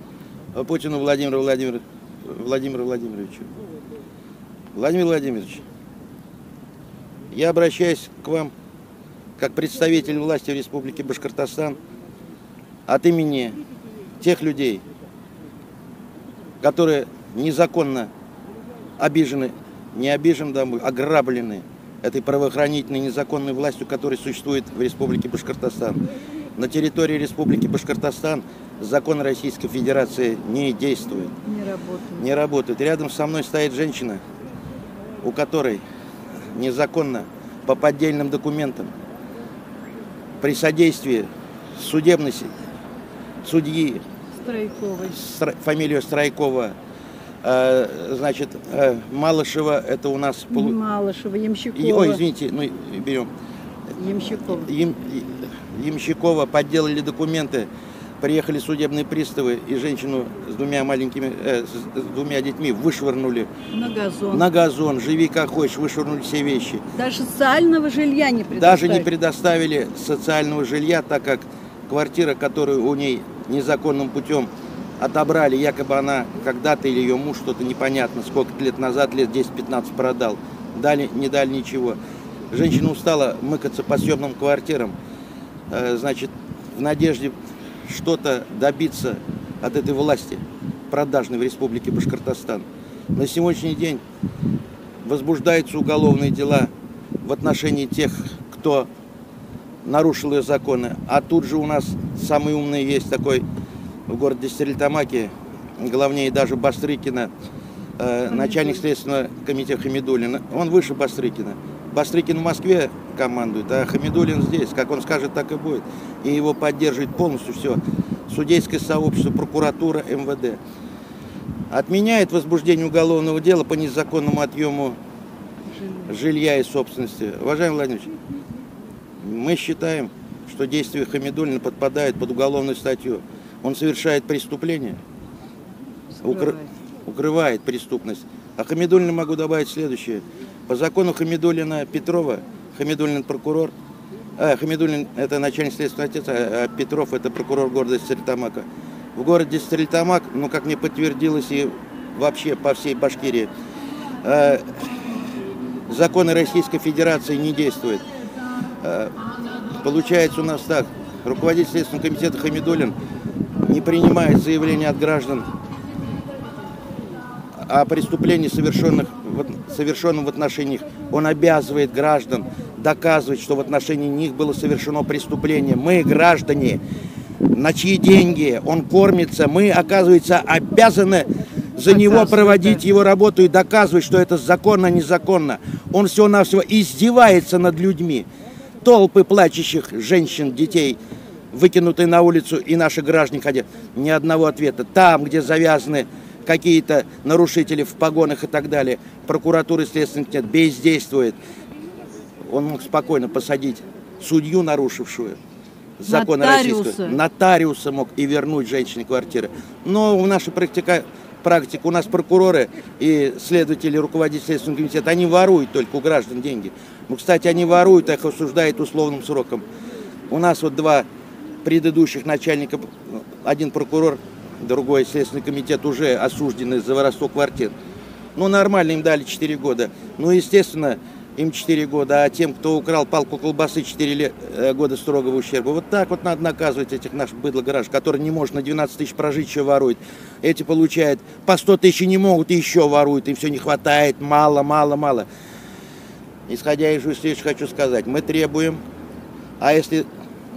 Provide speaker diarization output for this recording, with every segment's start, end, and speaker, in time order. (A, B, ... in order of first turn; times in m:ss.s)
0:00.5-0:03.5 A
0:04.8-0:05.6 A
0:07.3-0:08.5 A
0:09.4-0:11.8 A
0:12.9-0:13.6 A
0:14.2-0:14.8 A
0:16.6-0:18.1 A
0:19.0-0:26.0 A
0:26.6-0:31.4 A
0:31.4-0:32.3 B
0:32.2-0:34.2 A
0:35.2-0:35.8 A
0:36.5-0:38.9 A
0:40.4-0:42.5 A
0:43.4-0:44.0 A
0:44.4-0:45.2 B
0:45.0-0:46.8 A
0:47.4-0:50.8 A
0:50.5-0:52.2 B
0:51.8-0:53.3 A
0:54.0-0:54.7 B
0:54.4-0:57.7 A
0:58.2-1:03.5 A
1:03.7-1:04.5 B
1:04.3-1:06.8 A
1:07.0-1:09.1 B
1:08.5-1:22.0 A
1:22.5-1:25.0 A
1:25.7-1:34.0 A
1:35.0-1:36.7 A
1:37.2-1:38.9 A
1:39.8-1:43.4 A
1:44.1-1:47.3 A
1:48.0-2:00.6 A
1:48.3-1:48.8 B
2:01.7-2:05.0 A
2:05.8-2:06.1 B
2:06.0-2:08.1 A
2:09.2-2:15.0 A
2:16.2-2:16.7 B
2:16.2-2:23.7 A
2:24.4-2:33.5 A
2:34.2-2:34.7 A
2:35.9-2:38.0 A
2:38.8-2:39.2 A
2:39.8-2:43.0 A
2:43.6-2:45.5 A
2:47.6-2:56.8 A
2:57.5-3:08.3 A
3:01.9-3:02.8 B
3:08.8-3:11.0 A
3:11.5-3:21.4 A
3:22.5-3:25.4 A
3:26.0-3:39.6 A
3:26.1-3:27.2 B
3:40.3-3:41.1 A
3:41.6-3:47.7 A
3:48.4-4:05.3 A
4:06.5-4:08.8 A
4:09.6-4:10.1 A